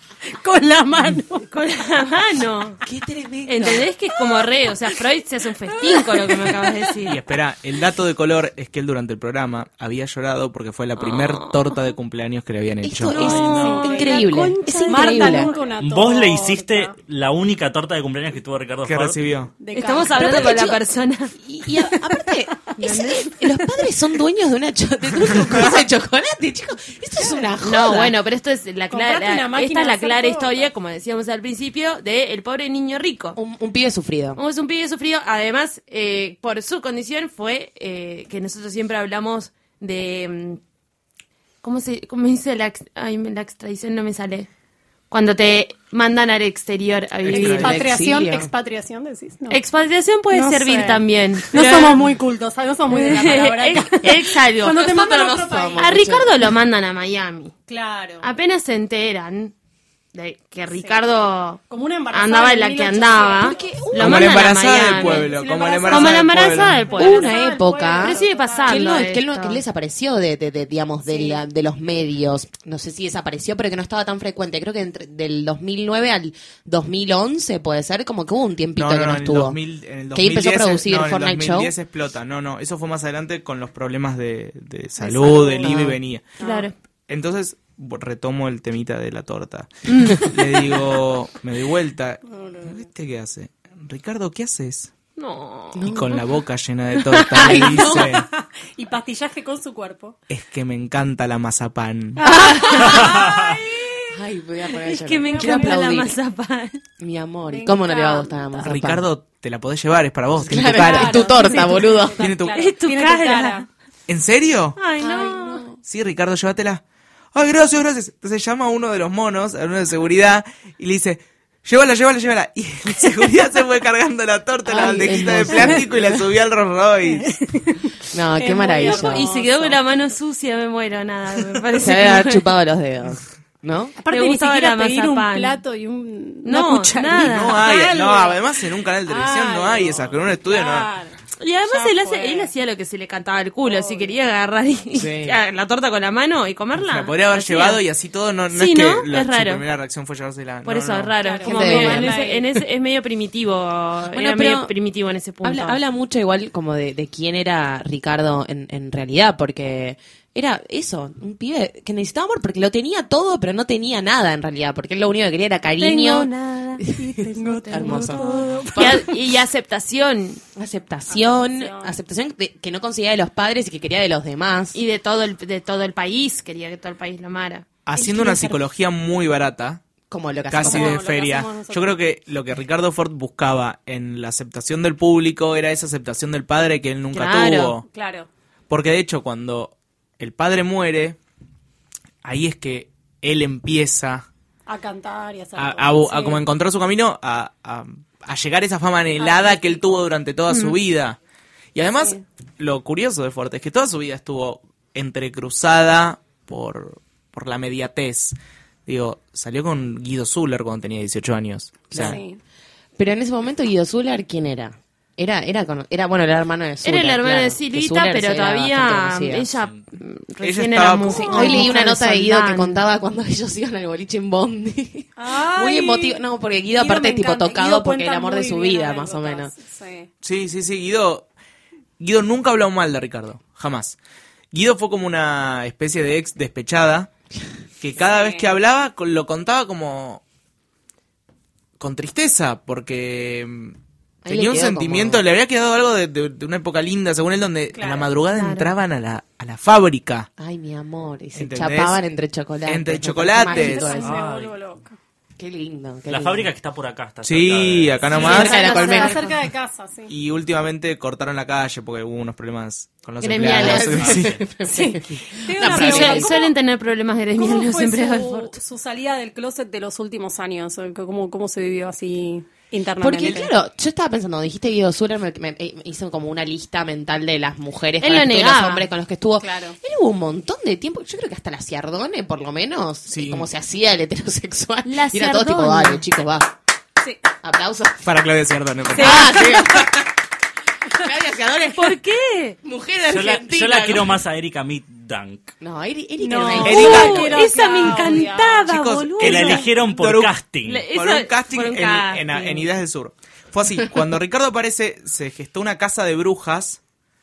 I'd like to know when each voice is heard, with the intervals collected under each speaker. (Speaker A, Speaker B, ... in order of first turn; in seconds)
Speaker A: 0.3-1.5, 5.8-6.6, 13.2-16.9, 19.6-20.6, 27.2-27.5, 28.9-30.7, 47.3-49.6, 50.3-55.9, 57.7-58.3, 60.7-61.0, 61.7-63.8, 65.0-68.9, 71.1-71.4, 85.0-85.7, 86.4-86.7, 92.3-92.9, 97.4-100.2, 102.2-104.1, 105.2-105.8, 107.5-108.7, 110.7-113.7, 125.5-125.7, 127.2-129.8, 134.0-141.2, 141.7-142.5, 143.6-144.1, 151.2-152.5, 167.0-169.1, 171.1-172.0, 180.6-182.0, 187.9-188.3, 194.7-196.4, 199.2-200.1, 212.0-212.4, 221.1-221.8, 225.2-230.1, 238.0-238.5, 247.7-248.1, 253.5-255.0, 258.1-260.1, 264.7-266.5, 267.4-273.5, 279.4-279.8, 289.0-289.5, 296.2-298.6, 299.2-299.7
Speaker B: 1.5-2.8, 3.5-7.2, 11.0-11.6, 13.2-15.6, 19.7-21.3, 22.8-23.3, 27.6-33.4, 34.4-40.6, 41.6-44.5, 45.1-47.8, 49.5-52.0, 52.9-54.9, 55.8-57.5, 58.2-59.5, 60.1-61.6, 62.1-65.3, 65.9-67.3, 68.0-69.6, 86.4-86.7, 89.9-90.3, 95.2-95.8, 102.3-103.1, 104.9-106.8, 111.4-111.7, 112.5-113.7, 114.8-115.6, 128.8-132.5, 134.1-135.6, 136.4-137.6, 141.4-147.8, 148.5-149.6, 150.7-155.8, 165.8-166.9, 167.4-170.4, 174.7-177.7, 187.1-187.8, 200.5-200.8, 216.8-222.8, 248.3-248.7, 258.1-259.3, 263.2-264.1, 265.6-268.6, 278.0-278.9, 284.9-286.0, 291.8-292.6, 296.6-299.6, 300.6-302.7
Speaker C: 2.8-3.9, 12.8-15.5, 20.1-20.8, 21.4-28.1, 33.4-34.4, 47.4-48.5, 54.7-56.3, 63.4-64.5, 67.0-79.6, 80.1-81.7, 85.3-86.0, 95.8-96.3, 97.1-98.2, 102.2-103.2, 104.1-106.2, 107.0-109.0, 110.4-112.2, 115.0-115.8, 124.7-126.2, 128.1-129.3, 131.8-133.9, 151.4-152.2, 154.1-154.7, 155.4-169.0, 170.6-174.8, 180.1-181.0, 211.9-212.2, 213.0-219.5, 221.1-229.5, 244.2-245.2, 250.4-254.1, 255.4-256.5, 258.1-259.2, 263.4-266.3, 273.0-286.5, 287.4-288.1, 288.9-290.1, 290.9-292.0, 292.6-294.2, 295.6-297.4
Speaker D: 7.1-13.4, 18.8-19.5, 47.3-47.7, 64.0-66.8, 78.8-86.2, 87.1-94.9, 95.9-98.3, 100.3-102.2, 108.7-111.3, 112.2-112.6, 114.1-114.8, 115.8-116.8, 117.3-127.3, 137.2-140.9, 145.0-145.3, 146.8-151.2, 177.9-179.8, 180.5-187.9, 188.7-191.2, 192.2-194.3, 195.6-201.2, 201.8-212.2, 220.4-221.4, 230.2-231.3, 232.0-234.0, 234.5-237.1, 237.8-240.2, 241.8-243.8, 244.3-250.3, 251.3-252.0, 252.7-254.0, 257.2-258.9, 260.1-264.4, 283.1-283.5, 288.1-289.6, 296.6-297.3, 298.7-300.4, 300.9-306.8
Speaker E: 13.2-13.8, 15.8-19.2, 103.0-103.5, 254.0-254.6, 256.1-258.2, 293.1-295.5, 299.2-300.9